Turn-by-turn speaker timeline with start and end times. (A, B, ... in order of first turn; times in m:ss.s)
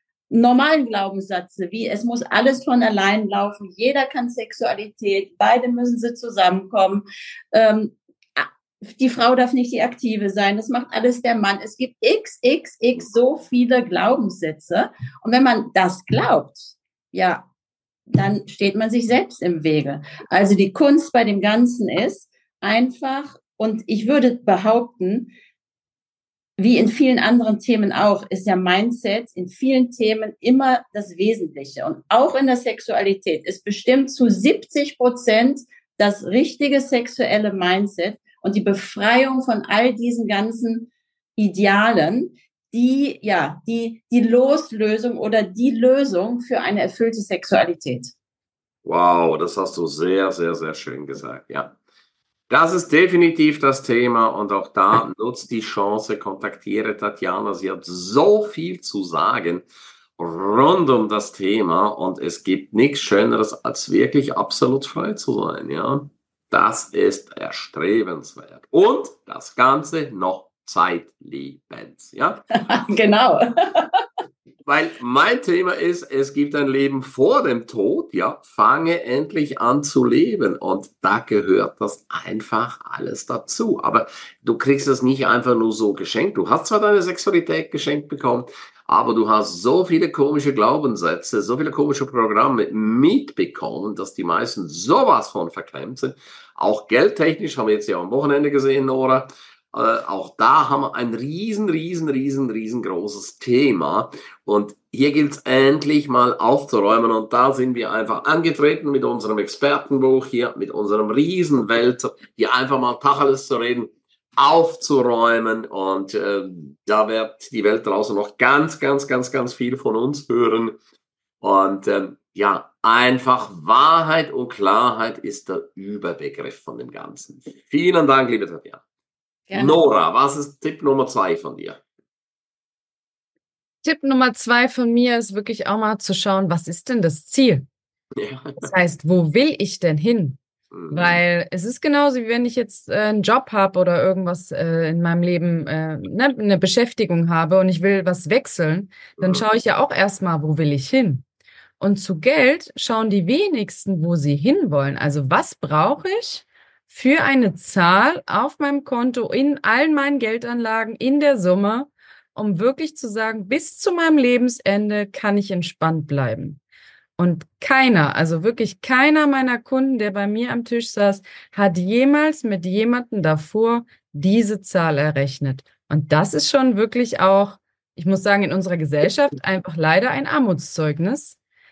0:00.3-0:17.5 A
0:18.1-0:25.3 A
0:26.6-0:48.1 A
0:48.8-0:51.7 B
0:52.5-0:59.6 B
1:00.2-1:12.5 B
1:12.6-1:13.9 A
1:14.6-2:00.8 B
2:01.4-2:08.8 B
2:09.5-2:09.8 A
2:09.5-2:11.8 B
2:13.8-2:17.6 C
2:18.2-2:18.7 B
2:18.6-2:20.4 C
2:20.7-2:21.2 B
2:20.9-2:31.2 C
2:29.2-2:29.4 B
2:31.8-2:46.6 C
2:47.2-3:01.4 C